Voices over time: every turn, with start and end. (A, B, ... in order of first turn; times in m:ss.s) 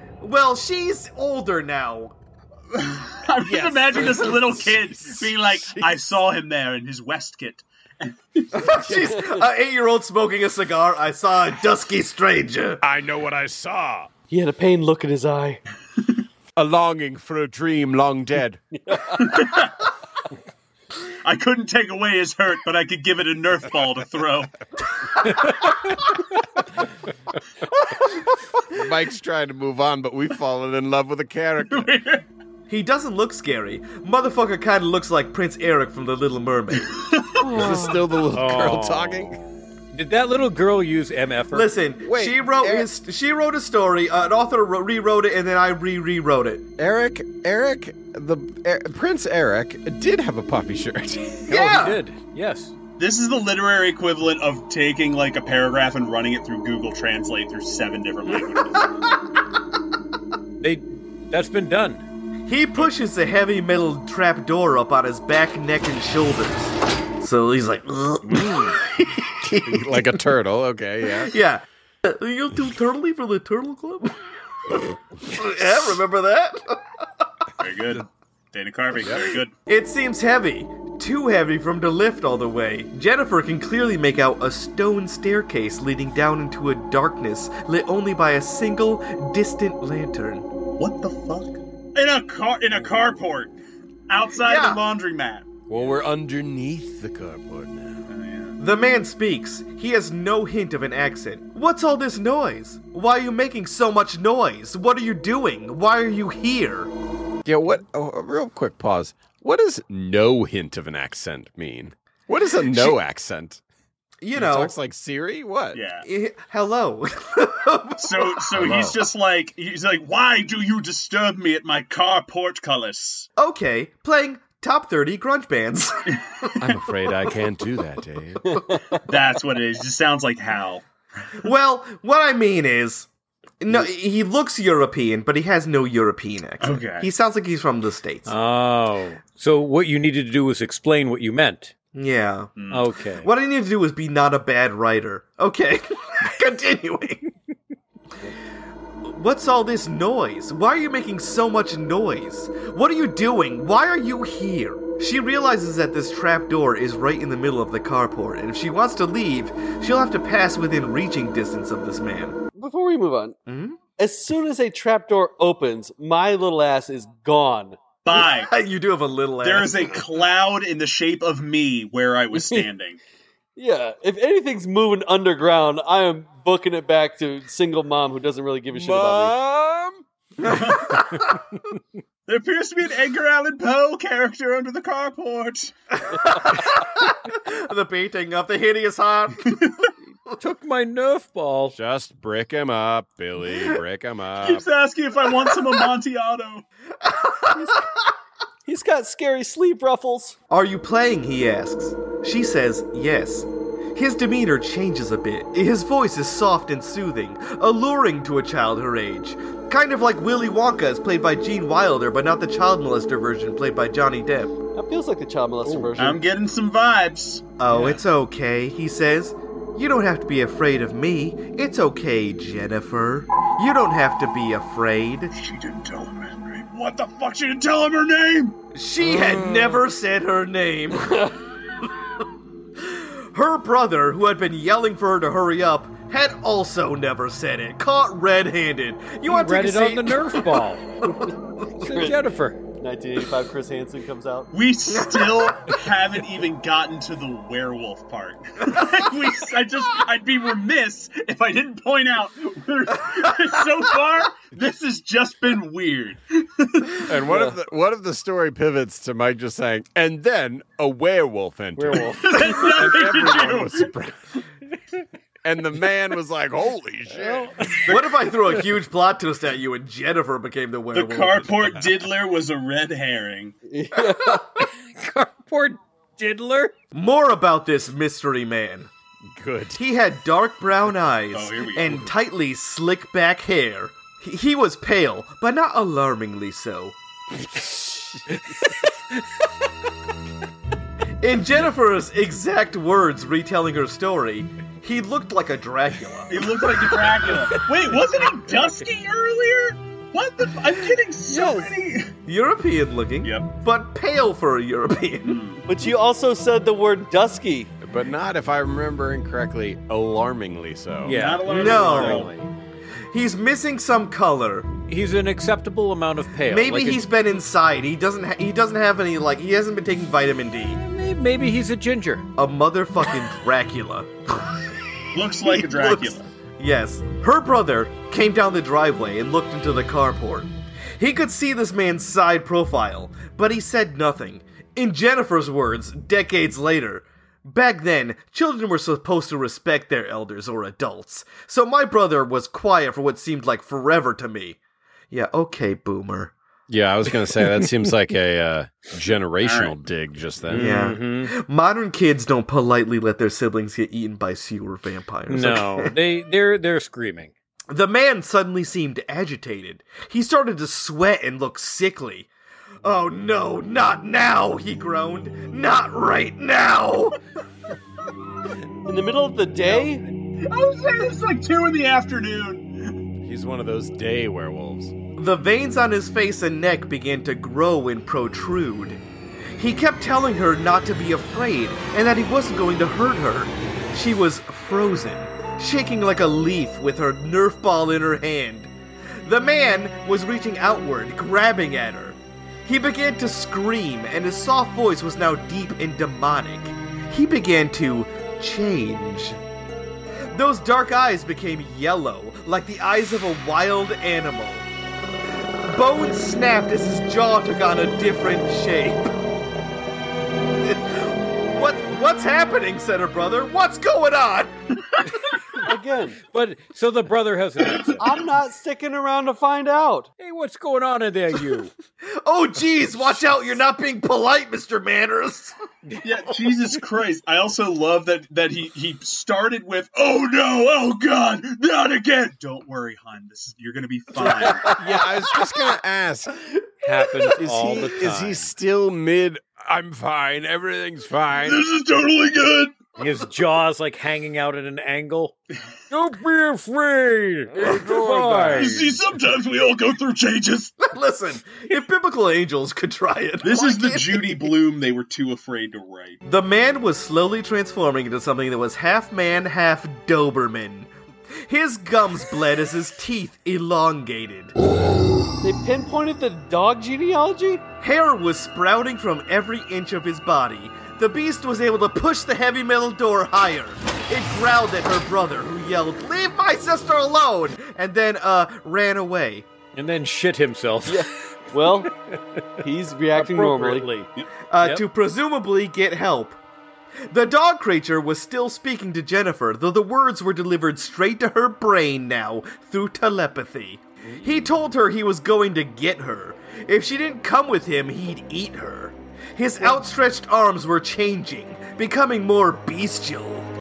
0:00.2-0:02.1 A
0:02.7-0:08.6 B
0:03.4-0:06.0 C
0:08.5-0:12.8 A
0:08.9-0:09.5 D
0:12.8-0:14.1 C
0:14.3-0:15.6 D
0:16.6-0:18.6 C
0:18.7-0:19.6 D
0:19.2-0:19.8 B
0:21.2-0:24.5 B
0:28.6-0:31.9 C
0:31.7-0:32.2 B
0:32.7-0:37.0 A
0:37.4-0:38.0 D
0:37.5-0:39.4 C
0:38.3-0:41.7 E
0:41.5-0:46.6 A
0:42.0-0:42.9 C
0:46.8-0:51.8 C
0:51.5-0:52.0 A
0:51.5-0:52.7 E
0:53.0-0:59.0 B
1:00.6-1:02.0 E
1:02.5-1:10.3 A
1:09.4-1:11.4 C
1:11.0-1:14.2 A
1:14.7-1:17.2 A
1:17.6-1:19.5 B
1:19.7-1:30.5 A
1:30.8-1:33.5 B
1:34.1-1:36.0 B
1:34.4-1:34.8 A
1:35.7-1:38.1 C
1:38.1-1:38.6 B
1:38.6-1:46.9 A
1:47.4-1:53.6 C
1:52.7-1:53.0 A
1:54.2-1:54.7 A
1:54.3-1:55.8 C
1:55.7-1:56.0 B
1:56.0-1:58.4 A
1:58.0-2:03.3 B
1:58.6-1:59.0 C
2:03.4-2:06.5 A
2:06.1-2:06.8 B
2:06.6-2:08.6 C
2:08.4-2:09.0 D
2:09.0-2:10.8 B
2:11.4-2:13.1 A
2:13.6-2:18.3 A
2:16.6-2:17.1 B
2:18.2-2:21.7 E
2:21.9-2:22.5 A
2:22.6-2:22.8 B
2:22.7-2:23.3 E
2:23.2-2:27.3 A
2:29.0-2:42.4 A
2:42.5-2:43.4 D
2:43.5-2:43.8 A
2:44.0-2:47.8 D
2:48.0-2:48.5 B
2:48.1-2:50.0 A
2:49.4-2:53.0 B
2:52.3-2:52.7 D
2:53.6-2:59.4 D
2:58.7-3:00.0 C
3:00.4-3:01.0 B
3:00.5-3:01.1 A
3:02.3-3:05.7 B
3:06.0-3:09.6 A
3:09.5-3:09.8 B
3:10.4-3:11.8 E
3:11.7-3:14.6 C
3:14.4-3:16.6 B
3:17.0-3:18.1 A
3:18.6-3:20.4 D
3:20.5-3:34.6 A
3:34.7-3:36.2 D
3:35.6-3:35.9 E
3:36.0-3:37.9 B
3:37.6-3:45.3 A
3:45.3-3:48.6 B
3:48.7-3:52.2 A
3:49.2-3:49.6 C
3:52.8-4:02.0 A
3:59.3-4:00.8 E
4:01.8-4:02.6 E
4:01.9-4:02.2 D
4:02.8-4:04.5 D
4:04.5-4:17.0 B
4:17.0-4:24.2 C
4:17.2-4:17.6 D
4:21.8-4:23.1 E
4:22.2-4:23.9 B
4:25.4-4:27.5 C
4:27.1-4:27.9 E
4:27.9-4:31.7 A
4:30.9-4:33.5 B
4:33.7-4:34.5 D
4:34.6-4:36.7 E
4:36.9-4:38.9 A
4:39.3-4:39.8 C
4:39.7-4:46.9 A
4:41.3-4:42.1 B
4:47.5-4:48.4 C
4:51.2-4:56.5 A
4:56.3-5:02.1 B
5:01.3-5:01.6 D
5:02.2-5:05.4 A
5:03.2-5:03.5 B
5:05.2-5:05.6 B
5:05.6-5:07.7 D
5:07.8-5:11.2 C
5:11.0-5:12.5 E
5:11.1-5:12.3 B
5:11.5-5:12.3 A
5:13.1-5:14.7 A
5:14.9-5:17.0 E
5:16.4-5:20.8 A
5:20.7-5:22.2 E
5:22.4-5:24.6 A
5:25.1-5:26.3 B
5:25.3-5:44.6 A
5:45.1-5:46.3 A
5:46.7-5:50.9 C
5:49.4-5:49.8 B
5:50.4-5:51.3 E
5:50.5-5:55.9 A
5:55.3-5:57.3 E
5:57.7-6:02.3 A
6:02.8-6:07.2 A
6:08.8-6:10.0 D
6:10.4-6:13.0 B
6:13.2-6:14.9 C
6:15.2-6:19.0 A
6:19.6-6:28.7 A
6:29.2-6:39.4 A
6:40.3-6:44.7 A
6:45.4-6:49.1 A
6:50.6-6:54.6 A
6:55.6-6:56.2 D
6:56.2-6:58.1 E
6:58.0-7:00.1 D
7:00.2-7:01.7 E
7:02.0-7:05.5 A
7:06.0-7:14.8 B
7:14.7-7:16.4 C
7:16.8-7:18.5 E
7:17.3-7:21.6 C
7:21.4-7:22.7 B
7:23.0-7:25.3 E
7:25.9-7:29.0 E
7:27.6-7:27.9 A
7:28.0-7:28.5 C
7:28.5-7:30.8 B
7:30.8-7:34.6 A
7:33.4-7:36.2 B
7:36.2-7:40.9 A
7:41.4-7:44.5 A
7:45.4-7:47.6 D
7:47.8-7:59.5 A
7:59.7-8:02.6 E
8:00.9-8:01.9 D
8:02.6-8:03.9 D
8:03.1-8:04.1 E
8:04.5-8:06.4 A
8:07.1-8:23.5 A